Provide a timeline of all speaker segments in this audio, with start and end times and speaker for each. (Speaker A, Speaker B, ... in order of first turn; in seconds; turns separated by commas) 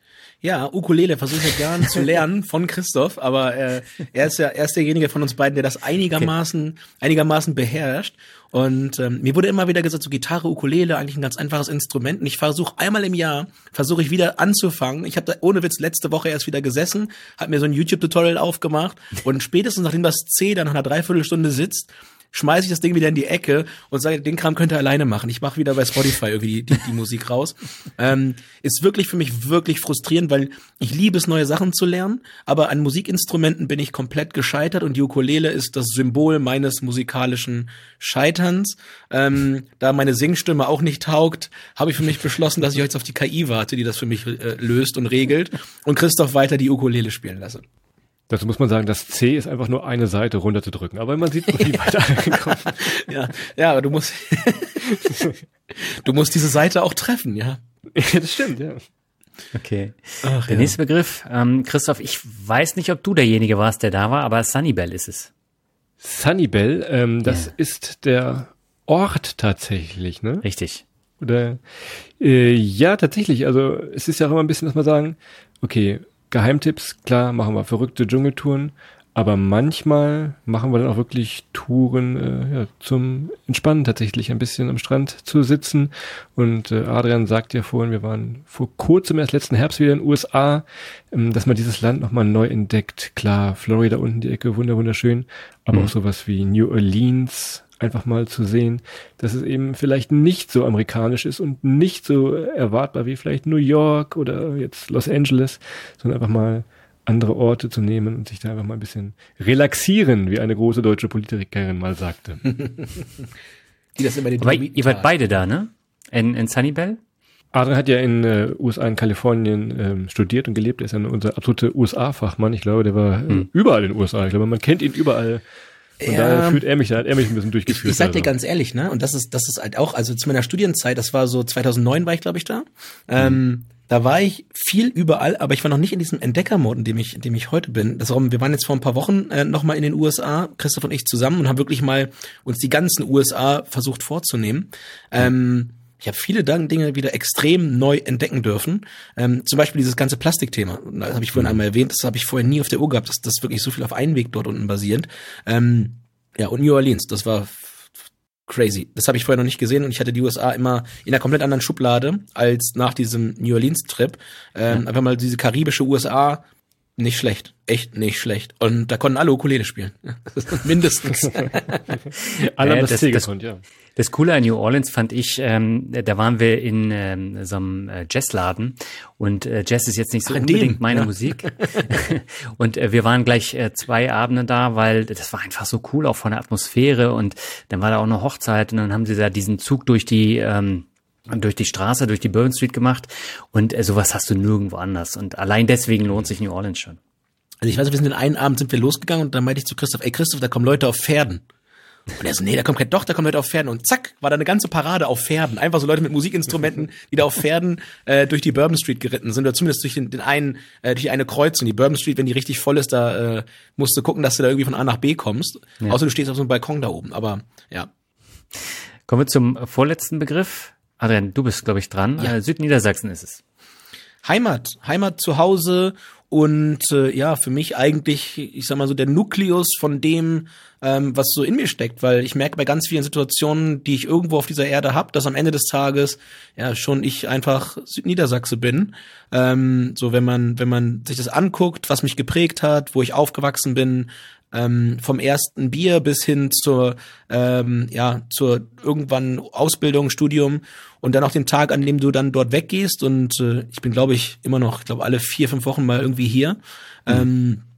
Speaker A: 0.4-47.6, Speaker B: 48.3-52.9, Speaker A: 52.7-55.0, Speaker A: 55.8-57.6, Speaker B: 57.9-58.8, Speaker C: 59.5-65.3, Speaker A: 60.2-60.7, Speaker B: 66.0-70.4, Speaker C: 67.2-67.5, Speaker C: 70.4-70.8, Speaker B: 71.2-112.6, Speaker A: 114.0-115.1, Speaker C: 114.4-117.0, Speaker B: 117.5-125.4, Speaker A: 126.0-126.6, Speaker B: 126.0-128.3, Speaker A: 127.7-157.7, Speaker A: 158.5-166.4, Speaker A: 167.0-171.8, Speaker B: 172.3-173.6, Speaker C: 172.6-173.3, Speaker C: 173.9-197.0, Speaker A: 180.2-181.9, Speaker A: 197.6-201.4, Speaker A: 202.2-217.9, Speaker C: 219.1-223.4, Speaker A: 224.2-257.6